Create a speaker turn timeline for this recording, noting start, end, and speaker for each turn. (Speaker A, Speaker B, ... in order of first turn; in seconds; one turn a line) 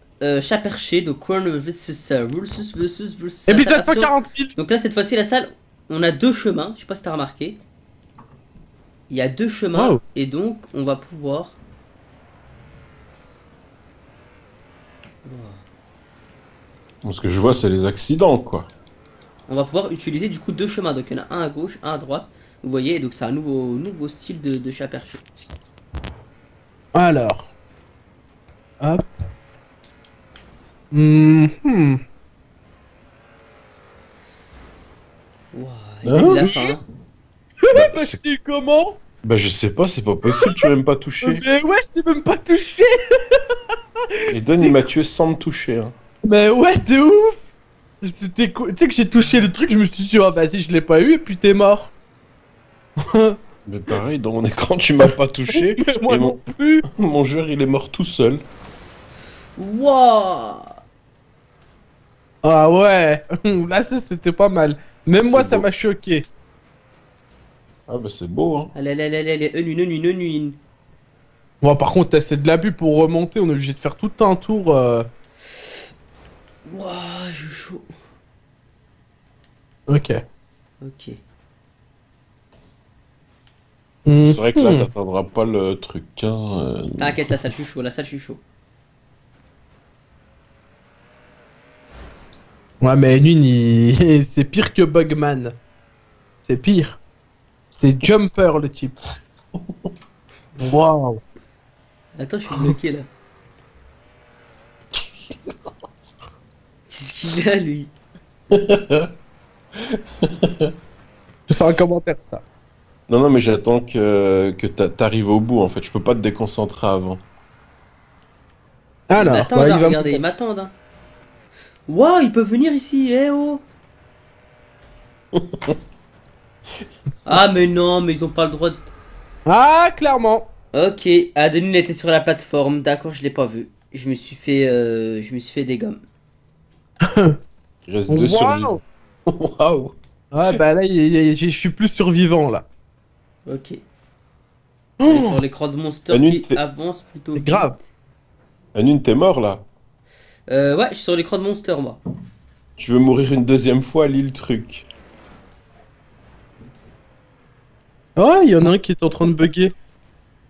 Speaker A: 0.2-7.6
Speaker B: 3.5-4.5
Speaker A: 9.1-11.6
Speaker B: 9.8-10.0
Speaker A: 15.2-15.6
Speaker C: 17.0-18.7
Speaker A: 19.5-25.2
Speaker B: 26.9-27.5
Speaker B: 28.8-29.1
Speaker B: 30.9-32.0
Speaker A: 35.5-36.8
Speaker C: 36.0-36.7
Speaker B: 37.6-39.0
Speaker C: 37.7-38.2
Speaker C: 39.2-41.4
Speaker B: 40.3-40.7
Speaker B: 41.2-43.5
Speaker B: 44.3-44.8
Speaker C: 44.3-45.9
Speaker B: 46.2-47.4
Speaker B: 48.0-51.9
Speaker C: 53.6-56.4
Speaker B: 55.5-56.8
Speaker C: 57.0-58.4
Speaker A: 59.6-60.8
Speaker B: 62.4-66.3
Speaker C: 65.2-65.7
Speaker C: 67.9-68.7
Speaker A: 68.7-70.6
Speaker B: 71.6-75.1
Speaker A: 76.7-77.9
Speaker B: 79.9-80.2
Speaker A: 80.8-81.2
Speaker B: 84.0-84.9
Speaker C: 84.2-87.3
Speaker A: 87.0-88.4
Speaker B: 92.8-95.6
Speaker B: 96.4-97.0
Speaker B: 97.7-99.0
Speaker B: 100.6-101.2
Speaker A: 102.2-103.1
Speaker A: 106.9-107.9
Speaker C: 108.5-109.1
Speaker C: 110.4-110.7
Speaker B: 111.5-112.4
Speaker C: 113.1-117.2
Speaker B: 119.1-120.2
Speaker A: 119.2-120.7
Speaker A: 121.9-123.6
Speaker C: 125.4-125.7
Speaker A: 127.2-128.9
Speaker B: 129.5-130.5
Speaker A: 130.7-136.0
Speaker C: 137.9-139.9
Speaker B: 138.1-138.8
Speaker B: 140.3-142.7
Speaker A: 143.4-143.8
Speaker B: 145.0-145.4
Speaker A: 145.0-147.9
Speaker C: 146.1-146.6
Speaker B: 147.3-147.8
Speaker C: 148.7-149.7
Speaker A: 150.5-152.0
Speaker C: 152.8-154.9
Speaker B: 158.2-159.7